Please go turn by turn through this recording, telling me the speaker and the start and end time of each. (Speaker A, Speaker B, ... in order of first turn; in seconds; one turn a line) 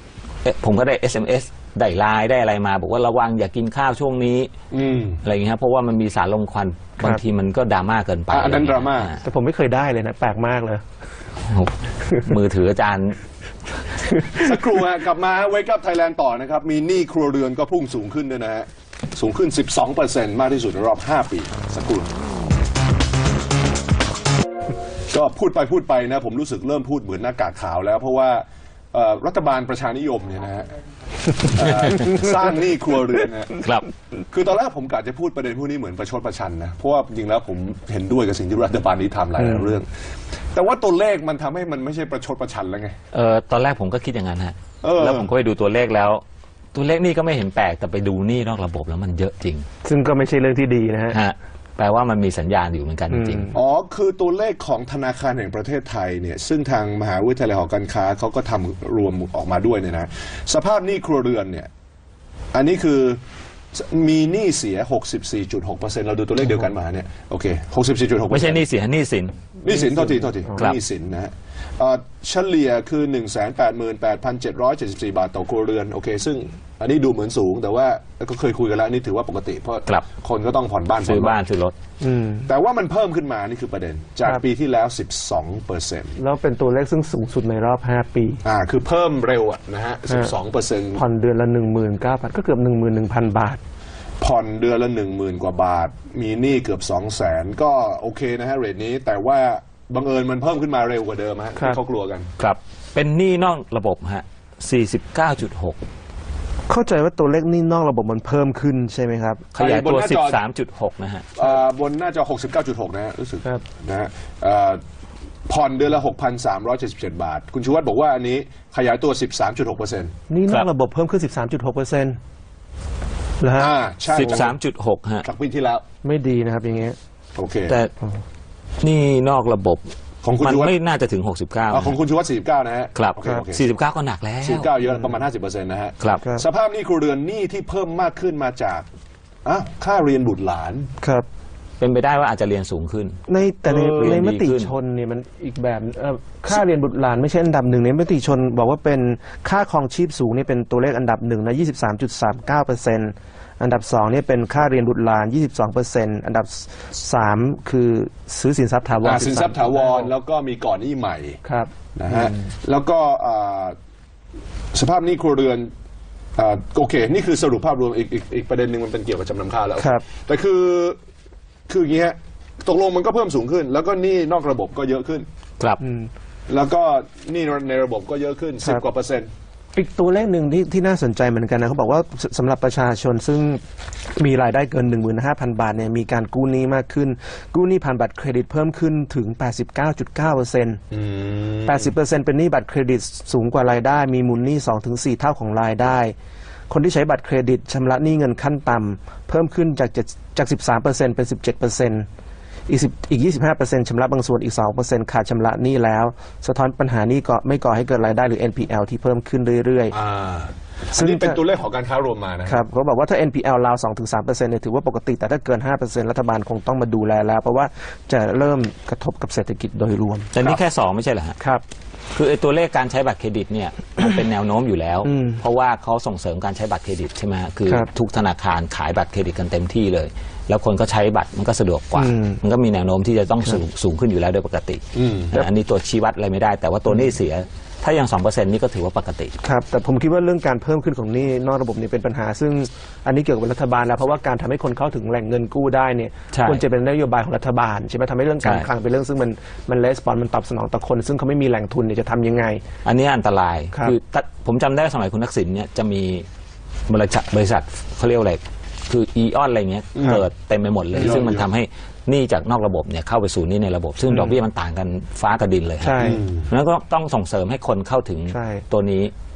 Speaker A: 0.4-4.5
Speaker B: 4.7-5.2
Speaker A: 5.2-9.2
Speaker B: 8.3-9.1
Speaker C: 9.2-10.8
Speaker A: 11.4-13.2
Speaker C: 14.1-14.6
Speaker B: 14.3-22.1
Speaker B: 25.1-30.7
Speaker B: 31.4-33.6
Speaker A: 33.6-33.9
Speaker B: 34.3-39.9
Speaker C: 39.4-39.8
Speaker B: 40.5-43.0
Speaker A: 43.1-46.2
Speaker B: 44.8-45.3
Speaker A: 46.7-49.7
Speaker C: 49.8-51.2
Speaker A: 51.1-53.5
Speaker C: 53.1-53.5
Speaker B: 53.5-61.7
Speaker B: 62.5-63.2
Speaker B: 63.7-68.6
Speaker A: 68.3-69.3
Speaker B: 69.6-81.4
Speaker C: 69.7-70.4
Speaker A: 81.0-81.7
Speaker C: 82.0-82.5
Speaker B: 82.5-86.2
Speaker C: 86.2-88.4
Speaker B: 88.4-91.0
Speaker C: 91.0-93.6
Speaker B: 94.2-102.3
Speaker A: 102.4-105.8
Speaker C: 106.7-109.5
Speaker A: 109.5-111.3
Speaker B: 109.6-110.4
Speaker B: 111.4-114.8
Speaker B: 115.5-120.1
Speaker C: 120.3-122.2
Speaker C: 123.4-123.7
Speaker B: 123.5-124.6
Speaker A: 124.1-125.3
Speaker B: 125.2-125.8
Speaker C: 126.0-127.0
Speaker B: 127.4-127.8
Speaker A: 128.8-129.8
Speaker B: 130.2-130.8
Speaker A: 130.4-132.0
Speaker B: 131.7-133.6
Speaker A: 132.9-134.7
Speaker B: 134.4-138.9
Speaker B: 139.4-140.9
Speaker C: 141.0-141.3
Speaker A: 141.8-143.2
Speaker C: 143.3-160.1
Speaker B: 143.7-144.2
Speaker A: 143.9-144.7
Speaker B: 159.0-161.4
Speaker C: 161.4-162.3
Speaker B: 162.0-163.8
Speaker B: 164.7-165.7
Speaker B: 166.4-171.0
Speaker C: 169.8-170.0
Speaker B: 171.7-175.3
Speaker C: 175.8-176.1
Speaker B: 176.5-179.3
Speaker C: 179.8-183.6
Speaker C: 184.2-190.8
Speaker B: 190.9-191.9
Speaker C: 191.7-196.2
Speaker C: 196.7-202.1
Speaker C: 202.7-209.9
Speaker B: 209.9-212.6
Speaker C: 210.9-211.4
Speaker C: 212.5-220.3
Speaker A: 220.3-221.4
Speaker A: 222.2-239.3
Speaker C: 225.1-225.4
Speaker C: 232.0-232.4
Speaker B: 234.9-235.4
Speaker C: 239.4-252.6
Speaker A: 246.3-246.6
Speaker A: 252.8-256.3
Speaker A: 256.9-269.1
Speaker B: 259.9-260.2
Speaker C: 260.9-261.2
Speaker B: 261.0-261.5
Speaker C: 264.1-264.4
Speaker C: 265.8-266.2
Speaker B: 266.0-266.5
Speaker C: 268.3-268.6